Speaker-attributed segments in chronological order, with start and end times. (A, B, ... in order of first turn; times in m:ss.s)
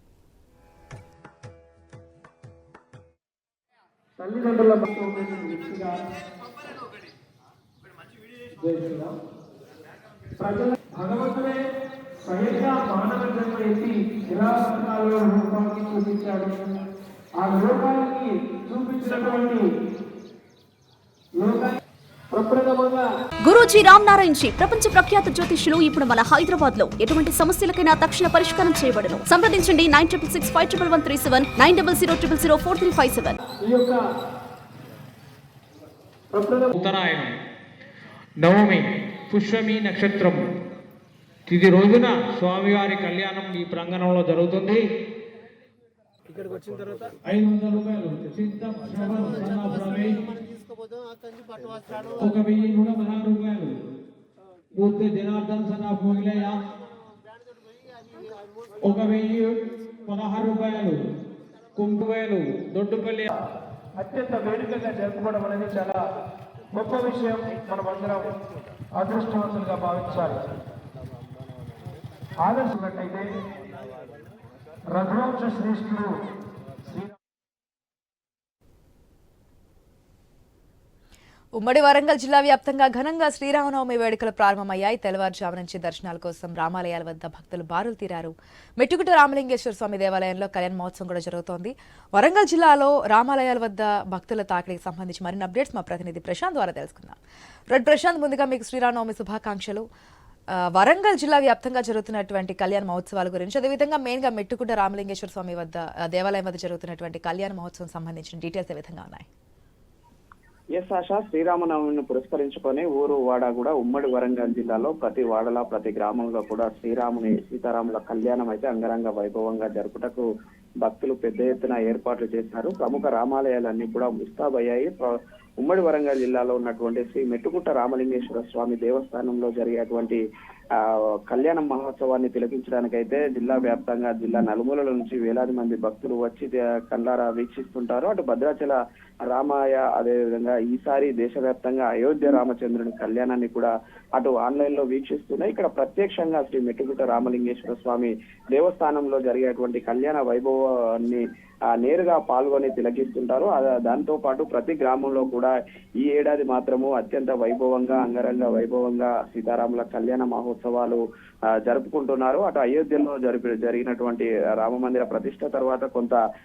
0:04.2-0:06.0 A
0:08.6-0:09.2 A
0:10.4-0:11.6 A
0:12.2-0:16.7 A
0:17.4-0:19.7 A
0:21.4-0:21.8 A
0:22.3-0:23.0 A
0:23.4-0:33.4 B
0:33.6-0:34.0 A
0:36.3-0:36.7 A
0:36.8-0:37.3 C
0:38.4-0:40.4 C
0:41.5-0:44.8 C
0:47.2-0:50.3 C
0:52.2-0:53.8 C
0:54.7-0:56.6 C
0:58.8-1:01.0 C
1:01.8-1:03.3 C
1:04.0-1:06.0 A
1:06.7-1:08.4 A
1:09.0-1:10.4 A
1:12.4-1:13.3 A
1:14.9-1:16.1 A
1:21.6-1:37.2 D
1:37.7-1:39.8 D
1:40.6-1:49.3 D
1:50.7-2:00.2 E
2:00.8-2:10.2 E
2:10.8-2:18.8 E
2:19.3-2:31.2 E
2:31.7-2:41.0 E
2:41.6-2:46.2 E